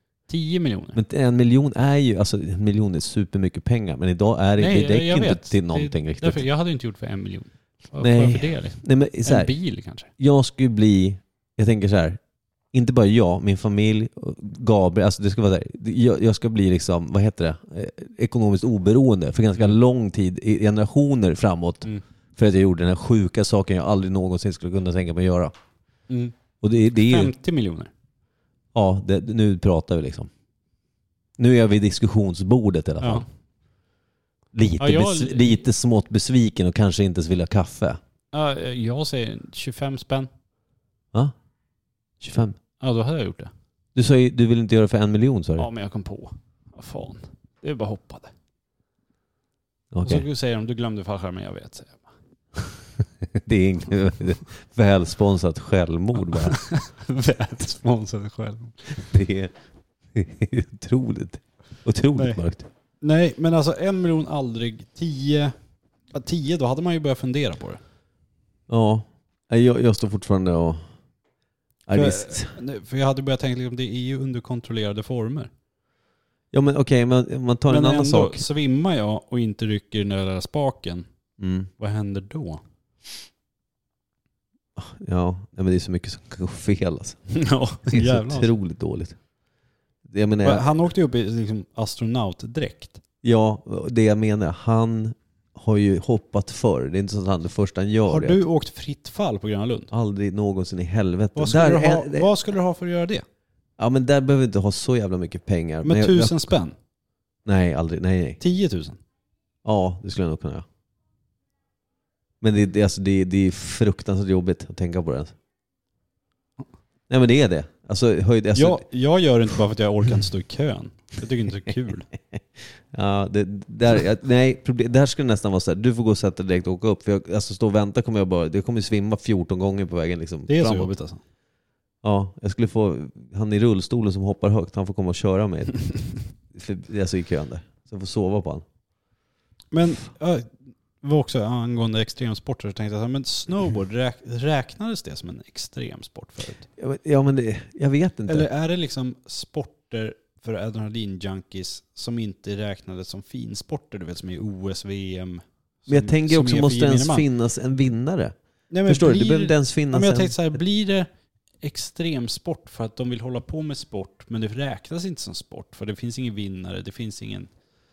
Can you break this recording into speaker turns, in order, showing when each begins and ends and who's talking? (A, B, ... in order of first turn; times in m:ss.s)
0:00.3-0:01.0 A
0:00.9-0:06.4 B
0:04.6-0:10.1 A
0:08.0-0:09.5 B
0:10.2-0:12.2 B
0:12.7-0:25.5 B
0:26.1-0:26.3 A
0:26.6-0:27.3 B
0:26.9-0:27.9 A
0:28.7-0:30.3 B
0:31.4-0:33.3 B
0:34.5-0:38.0 B
0:34.8-0:35.6 A
0:38.3-0:40.3 A
0:42.2-0:42.6 B
0:42.8-0:43.5 A
0:44.0-0:45.7 B
0:45.6-0:48.3 A
0:49.9-0:50.2 B
0:50.0-0:52.1 A
0:53.4-0:56.6 B
0:56.5-0:59.1 A
0:59.0-0:59.5 B
1:00.2-1:02.7 B
1:02.2-1:02.4 A
1:03.0-1:05.6 A
1:06.1-1:07.8 A
1:08.7-1:10.8 B
1:11.9-1:12.5 B
1:11.9-1:15.5 A
1:16.5-1:18.4 B
1:17.7-1:21.1 A
1:21.4-1:21.7 B
1:21.8-1:22.6 A
1:24.8-1:27.2 B
1:27.3-1:28.5 A
1:27.9-1:29.2 B
1:30.1-1:30.7 B
1:30.4-1:33.0 A
1:33.2-1:38.4 B
1:38.1-1:39.9 A
1:39.9-1:42.3 B
1:41.4-1:43.2 A
1:43.8-1:46.5 B
1:45.8-1:46.8 A
1:47.5-1:48.4 B
1:48.4-1:49.0 A
1:49.6-1:50.6 B
1:52.4-1:55.3 B
1:57.1-1:58.8 B
1:58.6-2:02.1 A
2:02.9-2:10.9 B
2:10.5-2:11.2 A
2:12.0-2:15.9 B
2:16.5-2:18.6 B
2:19.7-2:26.6 A
2:26.8-2:28.5 B
2:28.3-2:37.2 A
2:35.9-2:38.4 B
2:38.7-2:41.1 A
2:38.9-2:40.4 B
2:41.6-2:47.5 A